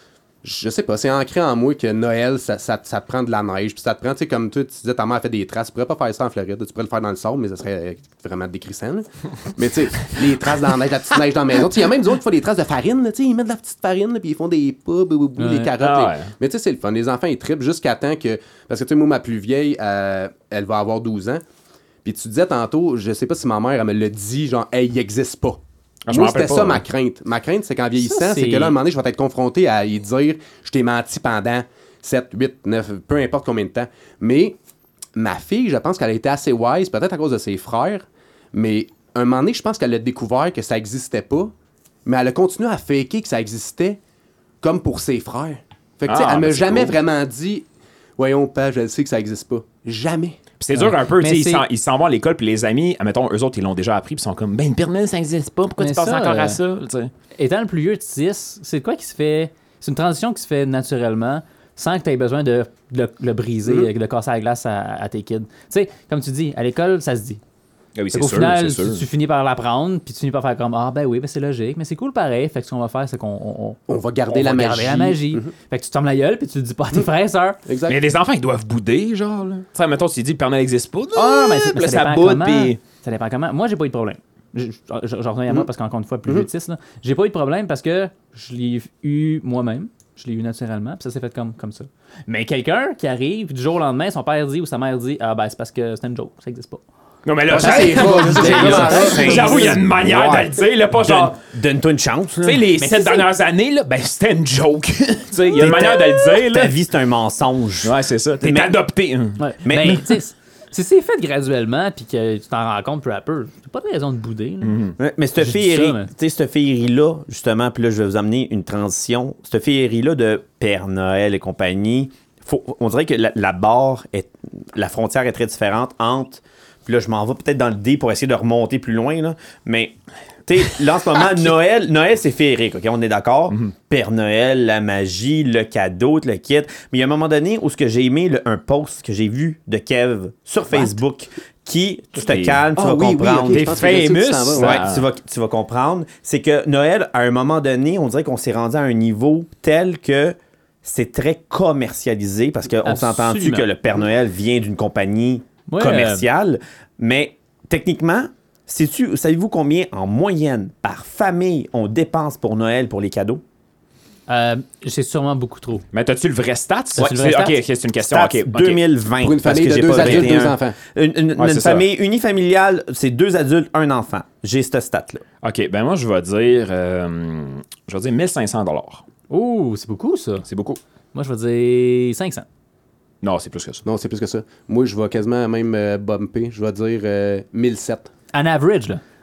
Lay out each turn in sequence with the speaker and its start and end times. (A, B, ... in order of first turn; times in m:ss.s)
0:00.4-0:21.4 A
0:15.4-0:15.7 B
0:15.8-0:16.3 C
0:22.0-0:34.6 A
0:26.1-0:26.8 C
0:28.0-0:28.8 B
0:35.1-0:41.5 A
0:42.0-0:44.0 A
0:44.6-0:47.7 A
0:46.0-0:47.0 C
0:48.2-0:50.4 A
0:50.6-0:57.1 C
0:50.7-0:51.6 B
0:55.8-0:56.6 B
0:57.3-1:07.4 B
1:03.6-1:03.9 A
1:08.0-1:09.0 C
1:08.1-1:17.6 B
1:13.9-1:15.5 A
1:17.6-1:18.0 A
1:17.9-1:22.8 C
1:21.1-1:36.8 B
1:37.2-1:41.4 C
1:37.5-1:39.8 A
1:37.6-1:42.6 D
1:38.2-1:39.6 B
1:42.4-1:46.7 C
1:42.8-1:43.2 B
1:45.6-1:48.8 D
1:47.8-1:50.1 C
1:49.4-1:54.8 B
1:49.6-1:50.1 D
1:54.6-1:55.0 C
1:55.0-2:23.8 D
1:55.4-1:56.1 B
2:22.2-2:22.6 C
2:22.8-2:24.8 A
2:23.5-2:25.0 C
2:24.5-2:43.4 D
2:32.8-2:33.7 B
2:35.7-2:36.3 B
2:44.3-2:45.8 B
2:45.9-2:48.8 C
2:47.0-2:47.6 B
2:48.0-2:55.2 D
2:49.2-2:50.8 A
2:50.0-2:50.3 C
2:51.4-2:51.8 C
2:55.4-2:59.0 C
2:59.3-3:00.4 B
3:00.5-3:00.8 C
3:01.1-3:02.4 B
3:03.2-3:03.8 C
3:03.8-3:08.1 A
3:08.3-3:09.0 B